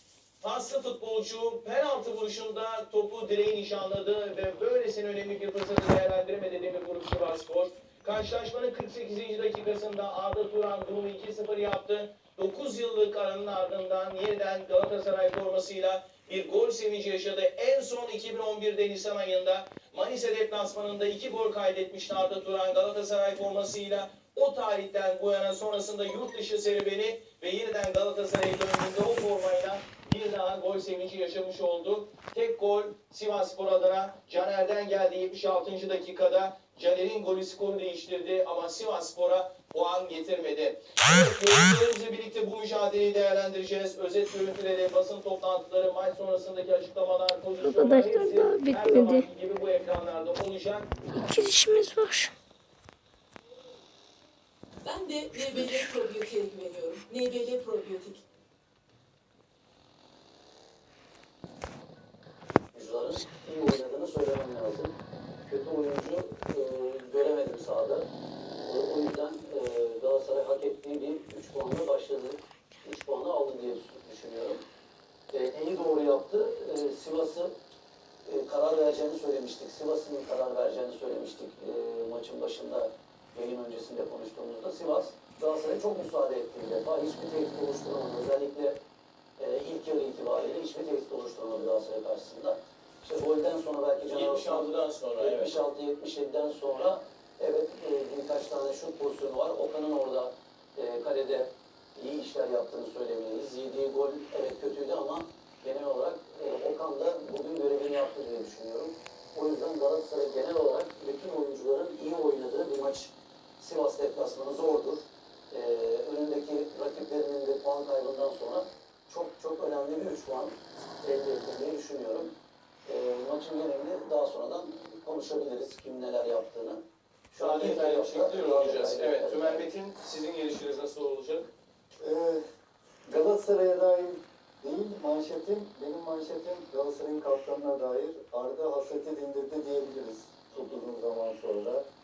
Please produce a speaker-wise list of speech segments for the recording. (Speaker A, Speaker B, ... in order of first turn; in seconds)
Speaker A: 0.4-50.9, 94.1-95.6, 127.4-131.5
Speaker B: 47.6-49.3, 51.1-52.3, 55.3-56.0
Speaker C: 54.9-58.2
Speaker D: 62.7-68.1, 68.6-74.7, 75.3-77.5, 78.2-88.8, 89.4-122.3, 122.8-129.7
Speaker E: 132.0-132.4, 133.1-141.8